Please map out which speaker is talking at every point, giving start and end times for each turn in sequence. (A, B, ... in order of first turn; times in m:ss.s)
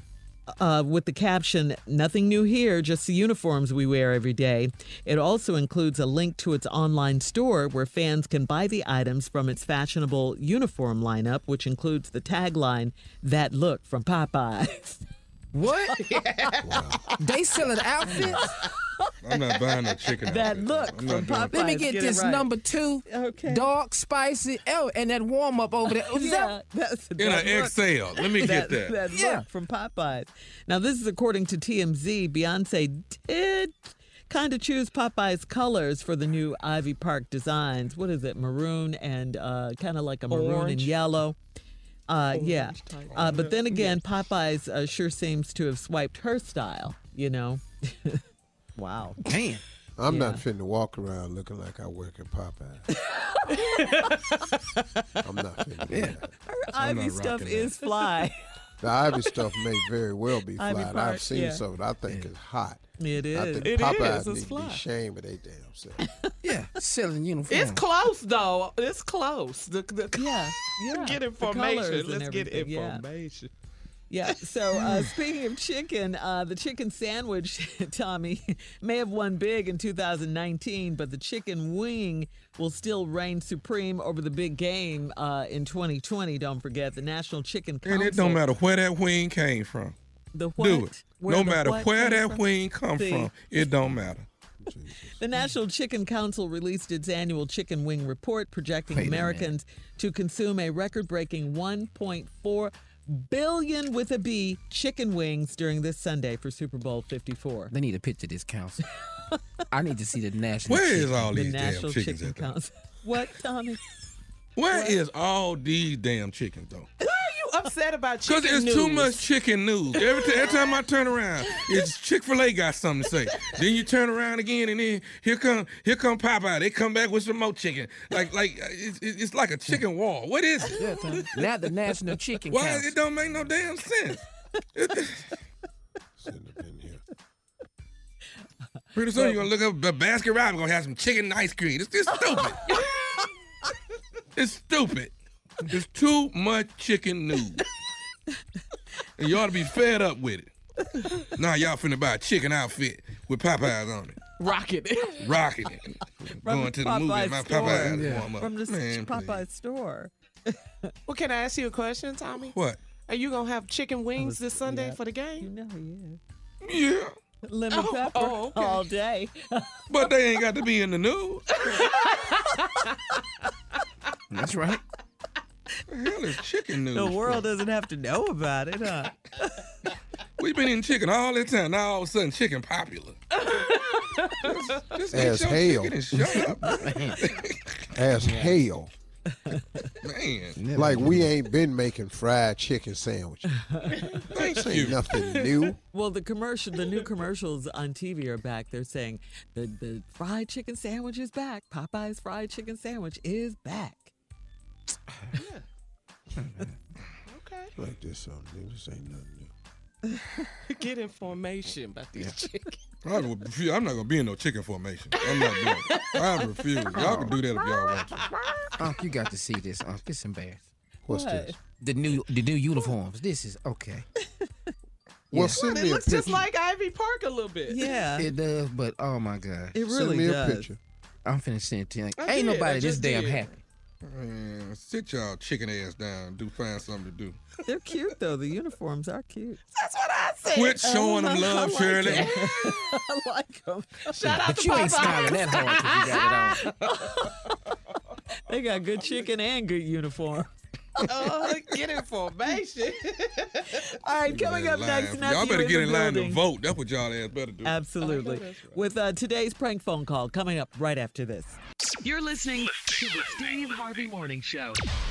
0:00.6-0:15.0 A
0:15.5-0:16.0 B
0:15.9-0:16.5 C
0:16.6-0:17.0 D
0:17.2-0:18.6 B
0:18.1-0:18.5 A
0:19.2-0:21.5 E
0:20.2-0:22.5 A
0:21.5-0:26.5 B
0:23.0-0:23.7 A
0:26.1-0:27.8 A
0:27.2-0:29.0 E
0:28.3-0:41.4 A
0:29.1-0:29.4 B
0:40.3-0:40.9 C
0:42.1-0:48.2 A
0:42.3-0:44.0 C
0:48.8-0:49.2 A
0:49.2-0:49.6 B
0:50.0-0:52.9 D
0:50.1-0:50.4 A
0:53.5-0:54.0 A
0:55.2-0:56.3 D
0:55.9-0:56.2 B
0:56.5-0:58.4 A
0:56.8-0:57.7 E
0:58.8-1:06.0 D
1:00.6-1:01.6 A
1:03.0-1:03.9 A
1:03.6-1:04.8 C
1:06.4-1:07.8 B
1:07.5-1:13.5 C
1:10.2-1:13.0 A
1:14.1-1:28.4 A
1:27.8-1:29.9 E
1:30.3-1:33.3 A
1:30.6-1:34.2 E
1:34.6-1:35.2 D
1:35.1-1:47.7 A
1:38.9-1:39.5 B
1:47.7-1:48.8 B
1:49.7-1:51.4 B
1:50.6-1:52.5 E
1:51.3-1:53.8 A
1:54.6-1:56.9 E
1:54.7-1:55.0 A
1:57.0-1:59.2 C
1:58.2-2:11.2 E
2:10.8-2:13.0 B
2:12.5-2:14.2 E
2:14.7-2:15.3 E
2:16.2-2:17.0 D
2:18.9-2:22.8 E
2:24.3-2:25.1 E
2:25.7-2:27.6 E
2:29.2-2:30.5 E
2:31.4-2:34.2 E
2:34.4-2:35.2 C
2:35.2-2:39.4 E
2:36.4-2:40.9 A
2:37.7-2:38.3 B
2:41.0-2:42.6 C
2:42.5-2:42.8 E
2:43.1-2:45.5 C
2:44.2-2:46.2 A
2:46.6-2:47.1 E
2:47.4-2:49.8 A
2:47.7-2:48.8 C
2:49.9-2:51.4 E
2:51.6-2:52.9 C
2:54.3-2:54.8 B
2:55.9-2:57.4 E
2:56.9-2:59.6 A
3:00.4-3:03.2 E
3:03.4-3:04.5 C
3:04.5-3:06.6 E
3:05.1-3:06.0 D
3:06.8-3:07.2 B
3:07.9-3:08.9 D
3:09.5-3:09.9 A
3:10.0-3:10.6 E
3:10.6-3:11.3 B
3:10.7-3:13.5 D
3:14.3-3:15.0 E
3:14.4-3:15.8 D
3:15.9-3:24.1 A
3:25.4-3:25.6 C
3:27.3-3:27.7 C
3:27.8-3:29.5 D
3:30.8-3:32.7 C
3:33.0-3:38.3 E
3:35.6-3:36.0 C
3:36.9-3:38.7 C
3:37.0-3:37.3 B
3:38.8-3:40.7 B
3:41.0-3:41.6 D
3:41.1-3:41.6 A
3:41.8-3:44.0 B
3:45.3-3:45.6 B
3:45.3-3:46.4 D
3:45.5-3:47.9 C
3:47.7-3:48.3 A
3:48.2-3:49.8 B
3:49.7-3:50.7 A
3:49.9-3:50.8 D
3:51.2-3:53.6 B
3:52.2-3:53.4 C
3:54.0-3:57.4 E
3:57.6-3:59.6 A
3:59.7-4:02.7 C
4:00.5-4:02.3 E
4:00.8-4:04.4 A
4:04.1-4:06.7 C
4:04.4-4:06.6 B
4:06.9-4:07.3 A
4:08.5-4:11.0 A
4:11.1-4:13.7 C
4:14.0-4:16.4 A
4:14.3-4:17.7 E
4:17.6-4:21.6 A
4:18.0-4:18.8 C
4:22.0-4:24.8 F